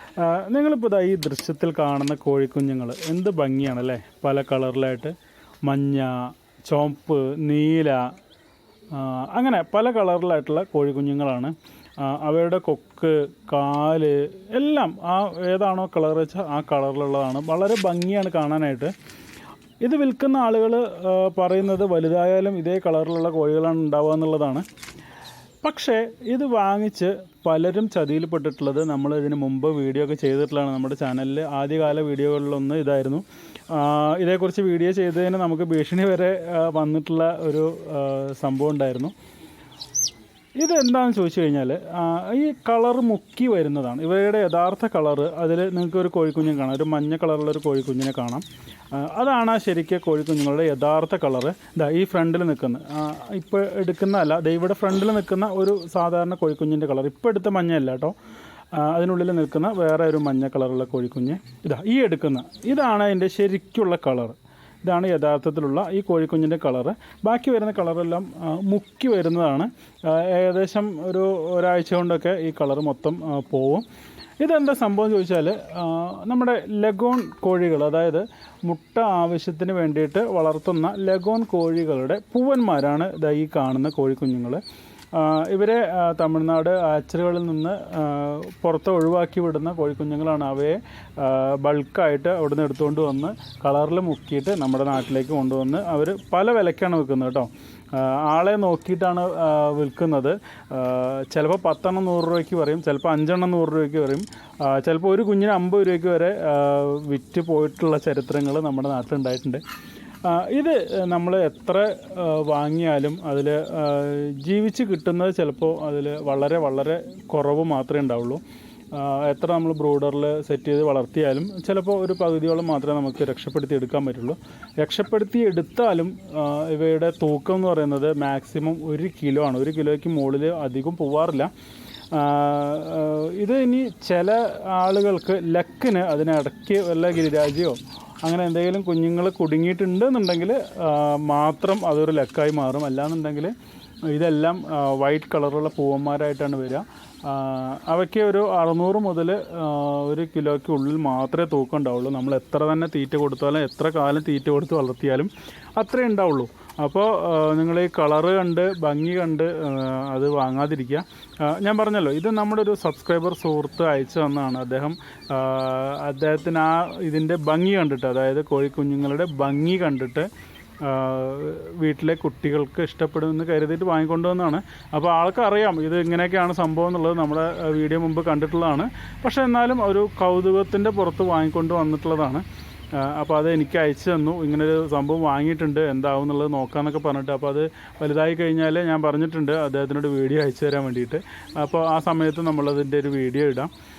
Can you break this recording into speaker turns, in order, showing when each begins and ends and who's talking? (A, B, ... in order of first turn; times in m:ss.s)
0:00.2-0:05.1 A
0:05.6-0:08.2 A
0:08.9-0:18.9 A
0:19.8-0:24.6 A
0:25.6-0:39.1 A
0:40.6-0:58.1 A
0:58.7-1:13.8 A
1:14.4-1:24.6 A
1:25.1-1:49.6 A
1:50.2-1:58.4 A
1:58.9-2:11.5 A
2:12.1-2:23.5 A
2:24.1-2:50.3 A
2:50.8-3:13.7 A